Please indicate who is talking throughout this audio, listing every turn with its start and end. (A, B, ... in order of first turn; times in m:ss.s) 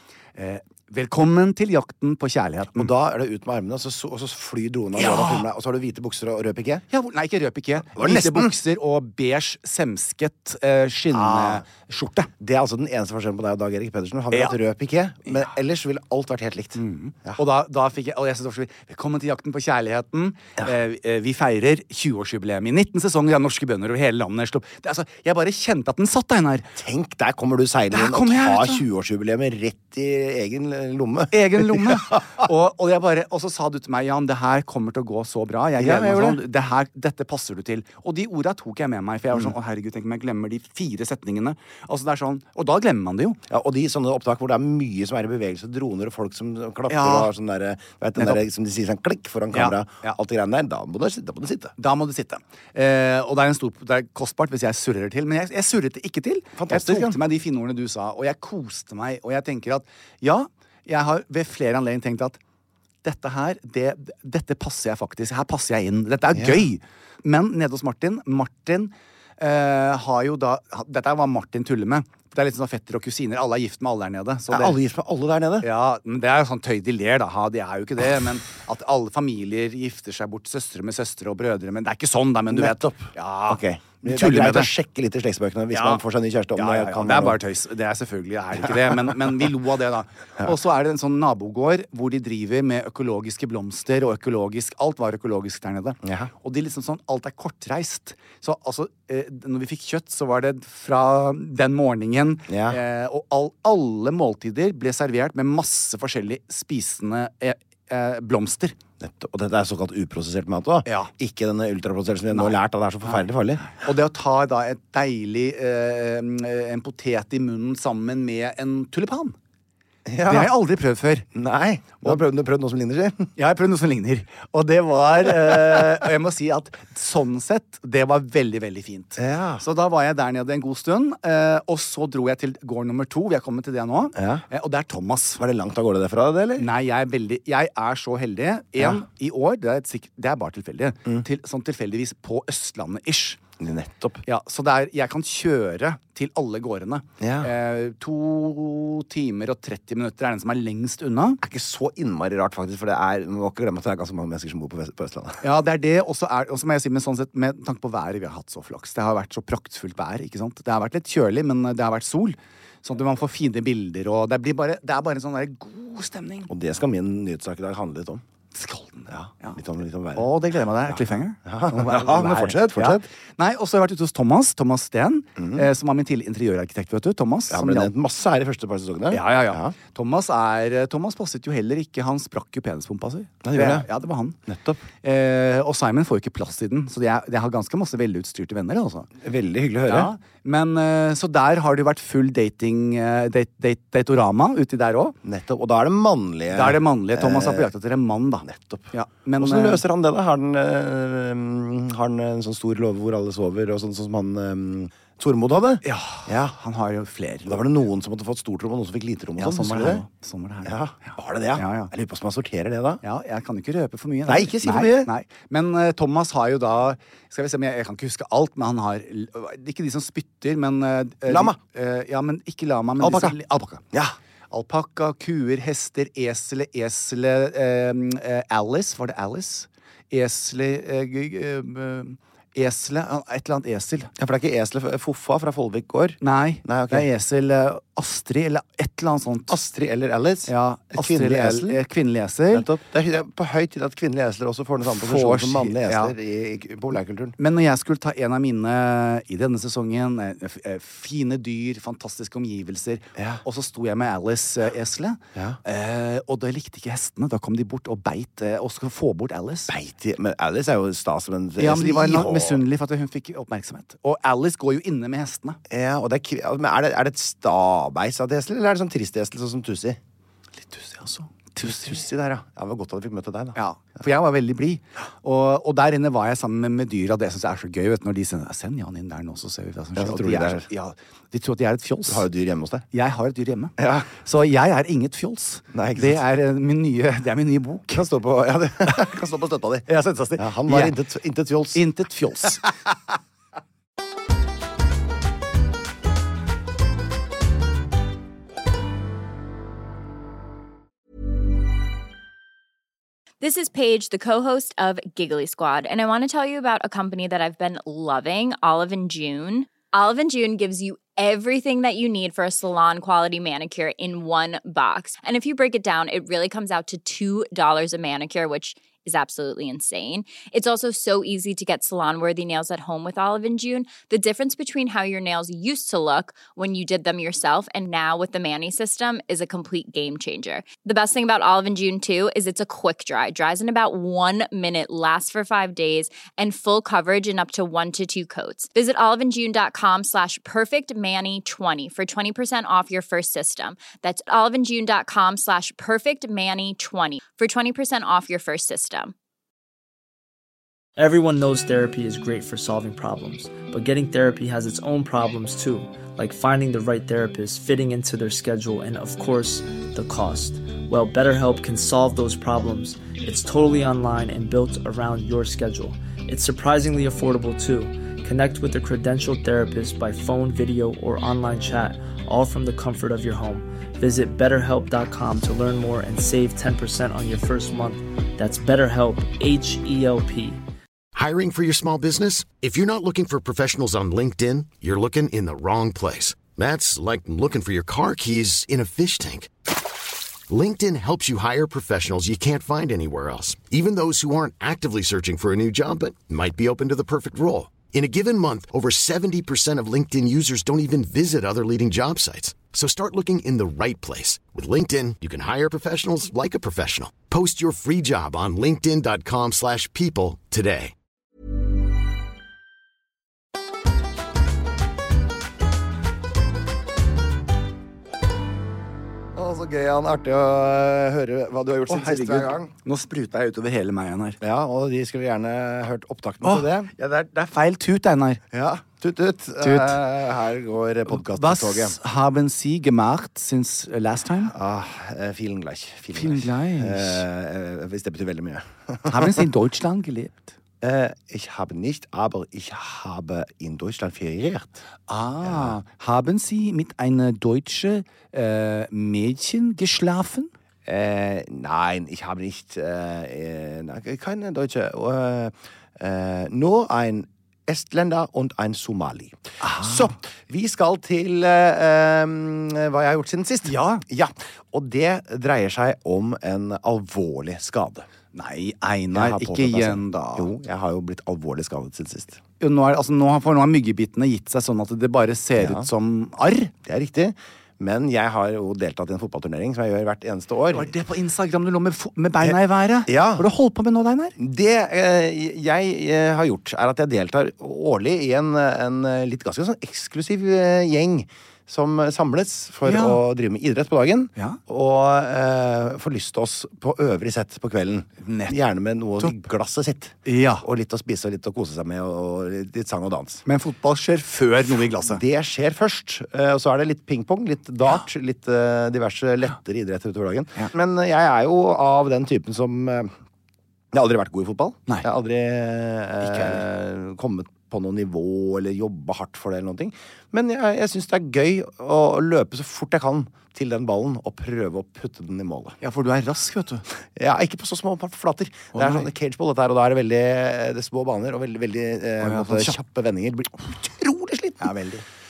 0:00.4-0:02.9 A
0:02.7-0:06.8 B
0:05.0-0:05.4 A
0:06.9-0:12.3 A
0:07.9-0:08.6 B
0:11.1-0:11.6 B
0:12.4-0:17.4 B
0:14.3-0:14.6 A
0:16.8-0:26.7 A
0:26.7-0:32.4 B
0:27.9-0:28.8 A
0:31.3-0:43.4 A
0:35.8-0:36.4 B
0:43.5-0:51.7 B
0:46.9-0:47.3 A
0:49.5-0:50.2 A
0:51.8-1:02.4 A
0:56.6-0:57.2 B
1:03.0-1:14.8 A
1:06.3-1:06.6 B
1:14.5-1:15.7 B
1:15.6-1:24.7 A
1:22.5-1:27.4 B
1:25.7-1:26.0 A
1:26.5-1:48.8 A
1:36.0-1:36.3 B
1:42.5-1:42.8 B
1:49.0-1:53.7 B
1:50.8-1:51.1 A
1:52.3-1:59.4 A
2:00.0-2:00.5 B
2:00.2-2:01.3 A
2:01.3-2:03.3 B
2:03.4-2:15.4 A
2:09.2-2:09.6 B
2:14.2-2:14.4 B
2:15.4-2:16.7 B
2:16.6-2:23.4 A
2:23.6-2:24.2 B
2:24.2-2:31.4 A
2:27.2-2:27.5 B
2:31.4-2:35.4 B
2:35.4-2:46.5 A
2:46.5-2:48.2 B
2:48.5-2:49.6 A
2:49.1-2:50.3 B
2:50.1-2:57.9 A
2:50.9-2:53.0 B
2:55.4-2:55.7 B
2:57.5-2:59.7 B
2:59.1-3:04.4 A
3:03.4-3:03.9 B
3:04.4-3:04.8 B
3:05.0-3:09.1 A
3:09.2-3:10.1 B
3:09.9-3:15.2 A
3:15.2-3:17.7 B
3:16.5-3:19.8 A
3:18.4-3:26.6 B
3:25.8-3:27.7 A
3:27.4-3:30.0 B
3:29.4-3:31.9 A
3:30.6-3:33.0 B
3:33.0-3:43.8 A
3:34.2-3:35.1 B
3:41.3-3:41.6 B
3:43.0-3:43.4 B
3:44.5-3:54.1 A
3:54.2-3:57.1 B
3:56.2-3:59.5 A
3:59.5-4:01.8 B
4:00.5-4:02.7 A
4:02.5-4:07.4 B
4:04.9-4:06.1 A
4:07.4-4:19.7 A
4:13.2-4:13.4 B
4:19.7-4:22.6 B
4:21.6-4:25.6 A
4:25.7-4:30.0 B
4:30.6-4:32.0 A
4:31.6-4:33.6 B
4:33.5-4:42.2 A
4:40.0-4:40.7 B
4:42.1-4:42.8 B
4:42.9-4:48.0 A
4:43.8-4:44.1 B
4:45.7-4:46.2 B
4:47.9-4:51.8 B
4:49.9-4:50.9 A
4:51.7-4:52.6 A
5:03.4-5:49.1 C
5:51.0-6:20.6 D
6:21.1-6:29.5 E
6:30.5-6:50.9 E
6:59.3-7:02.7 B
7:01.9-7:04.4 A
7:04.4-7:06.9 B
7:06.4-7:08.4 A
7:08.5-7:12.0 B
7:09.6-7:10.0 A
7:11.1-7:14.5 A
7:14.5-7:19.4 B
7:16.1-7:17.2 A
7:19.0-7:20.5 A
7:20.8-7:24.8 B
7:25.1-7:30.5 A
7:25.4-7:25.7 B
7:30.8-7:48.1 B
7:39.6-7:40.1 A
7:43.6-7:44.0 A
7:48.3-7:50.5 A
7:49.1-7:52.4 B
7:52.6-7:56.7 A
7:55.6-7:55.9 B
7:56.8-8:00.9 B
8:00.7-8:04.4 A
8:02.4-8:03.5 B
8:04.4-8:23.4 B
8:12.8-8:13.2 A
8:18.2-8:18.6 A
8:19.2-8:19.4 A
8:20.2-8:20.6 A
8:23.4-8:25.2 A
8:25.0-8:33.1 B
8:33.9-8:45.8 B
8:36.2-8:36.6 A
8:45.8-8:46.8 A
8:47.1-8:54.7 B
8:48.7-8:49.1 A
8:52.2-8:52.8 A
8:54.6-8:55.0 A